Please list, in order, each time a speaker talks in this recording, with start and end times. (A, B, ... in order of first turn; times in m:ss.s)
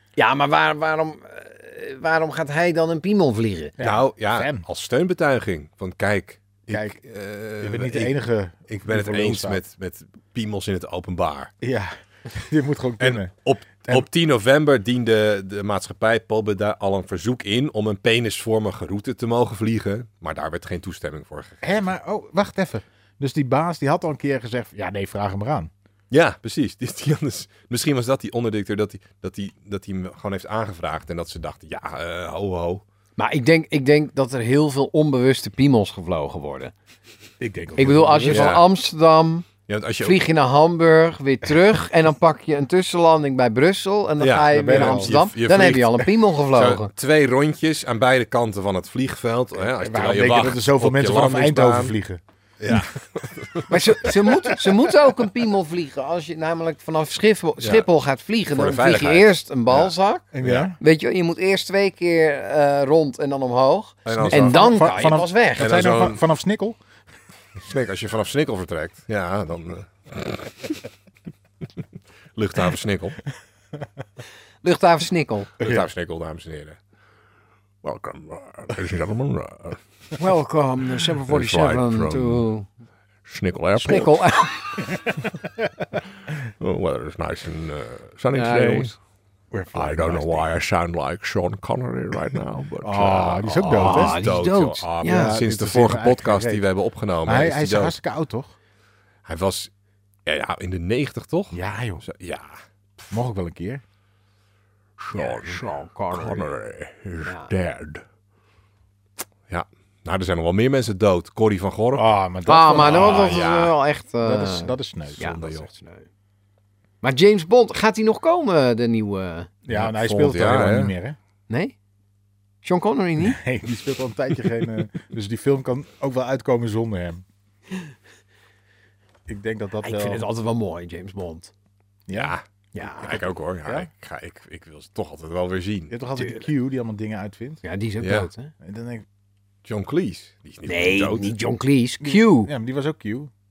0:00.2-0:03.7 A
0:03.8-0:04.6 B
0:03.8-0:08.2 C
0:06.7-0:07.0 B
0:07.6-0:09.6 B
0:08.7-0:11.5 C
0:11.6-0:13.3 B
0:13.0-0:21.8 C
0:21.6-0:25.7 B
0:26.1-0:32.8 C
0:33.2-0:36.7 A
0:37.4-0:38.6 B
0:37.8-0:39.5 A
0:38.3-0:38.6 C
0:39.7-0:40.2 C
0:40.0-0:46.9 A
0:44.2-0:52.0 C
0:44.5-0:45.2 B
0:49.7-0:52.2 B
0:52.6-0:53.8 C
0:53.7-1:00.3 A
0:57.6-0:57.9 C
0:58.5-1:00.7 C
1:00.3-1:00.8 B
1:00.8-1:05.7 A
1:04.0-1:04.6 C
1:04.1-1:06.8 B
1:05.6-1:06.2 C
1:07.6-1:10.8 C
1:12.4-1:13.2 C
1:14.6-1:15.5 A
1:15.6-1:16.8 C
1:15.6-1:15.9 B
1:17.8-1:19.8 C
1:20.2-1:22.7 A
1:21.2-1:22.4 C
1:23.2-1:24.2 C
1:23.8-1:24.8 A
1:26.6-1:28.9 C
1:28.3-1:28.9 A
1:29.5-1:30.5 B
1:29.7-1:38.0 C
1:32.8-1:34.2 B
1:33.7-1:35.4 A
1:35.0-1:36.6 B
1:37.2-1:38.5 B
1:39.2-1:39.7 C
1:40.2-1:42.6 C
1:41.5-1:42.0 B
1:43.1-1:43.8 B
1:45.0-1:48.0 C
1:45.1-1:46.5 A
1:47.2-1:47.5 A
1:49.5-1:52.1 C
1:51.9-1:53.6 B
1:52.5-1:56.1 A
1:52.7-1:53.7 C
1:54.2-1:55.4 B
1:55.2-1:55.7 C
1:57.0-1:59.5 A
1:59.6-2:01.2 B
1:59.7-2:00.9 C
2:01.5-2:01.7 A
2:02.6-2:03.4 A
2:03.2-2:07.2 B
2:09.3-2:10.2 B
2:09.8-2:11.5 A
2:12.1-2:12.3 B
2:12.1-2:12.4 C
2:12.7-2:13.2 A
2:13.0-2:16.0 C
2:15.9-2:17.6 B
2:17.6-2:18.5 A
2:18.0-2:18.3 C
2:18.6-2:19.0 B
2:19.6-2:21.3 C
2:20.6-2:22.5 A
2:22.0-2:23.3 B